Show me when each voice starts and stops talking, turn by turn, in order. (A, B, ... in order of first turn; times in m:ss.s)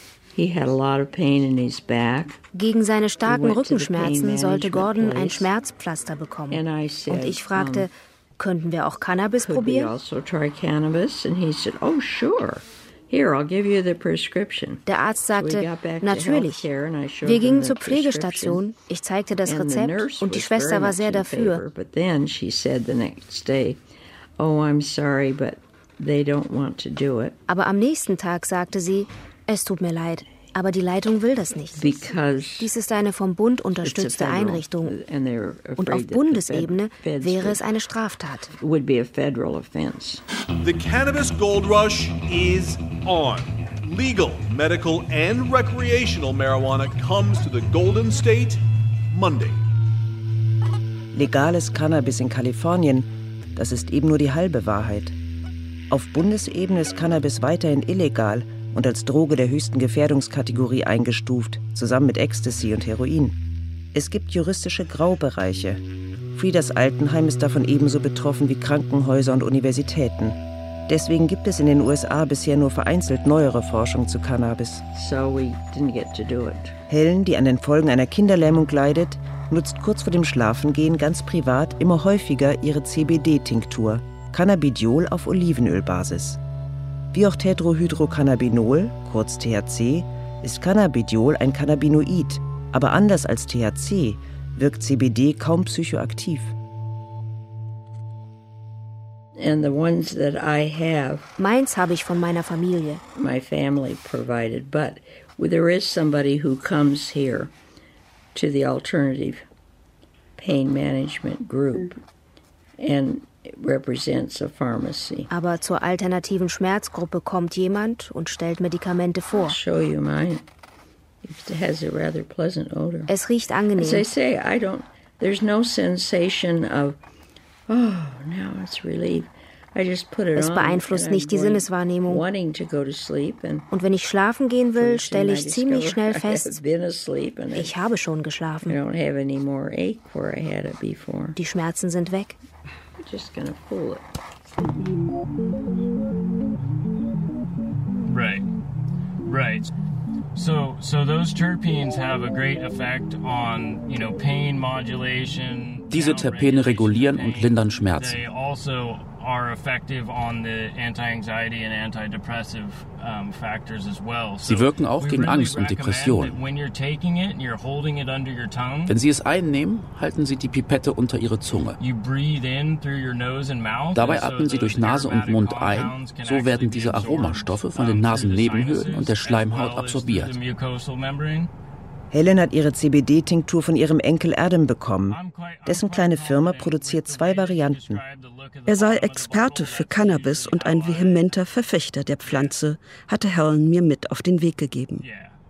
0:00.3-0:02.4 A
0:02.5-0:09.9 B
0:03.2-0:05.5 A
0:06.5-0:07.9 A
0:09.4-0:18.6 A
0:14.8-0:16.7 B
0:17.2-0:21.6 B
0:19.4-0:23.8 A
0:24.4-0:27.4 A
0:27.5-0:35.0 B
0:31.8-0:32.7 A
0:33.8-0:37.6 A
0:35.8-0:38.5 B
0:38.6-0:40.2 A
0:40.7-0:48.5 C
0:49.1-0:49.5 C
0:51.1-0:55.1 D
0:55.9-1:03.4 D
1:03.9-1:05.8 D
1:06.3-1:10.4 D
1:10.9-1:14.8 D
1:14.9-1:16.8 A
1:16.9-1:26.4 D
1:27.1-1:36.5 D
1:39.3-1:41.3 A
1:41.4-1:43.0 B
1:43.2-1:47.5 A
1:48.3-1:49.4 A
1:50.4-1:52.0 A
1:52.8-1:55.3 A
1:55.3-1:59.6 B
1:59.3-2:00.4 A
2:01.2-2:03.1 A
2:03.1-2:04.1 B
2:03.8-2:07.0 A
2:07.7-2:13.7 A
2:10.4-2:12.2 B
2:13.7-2:16.6 B
2:14.8-2:17.8 A
2:17.5-2:18.8 B
2:18.6-2:21.4 A
2:21.4-2:22.4 B
2:23.0-2:24.0 A
2:28.1-2:28.5 E
2:29.2-2:29.7 E
2:30.4-2:48.9 E
2:35.9-2:38.2 F
2:44.4-2:46.4 F
2:48.9-2:51.8 F
2:51.8-3:01.5 E
2:53.9-3:00.3 F
3:02.1-3:08.0 D
3:05.1-3:11.3 E
3:08.7-3:15.0 G
3:12.2-3:12.5 E
3:15.0-3:15.4 E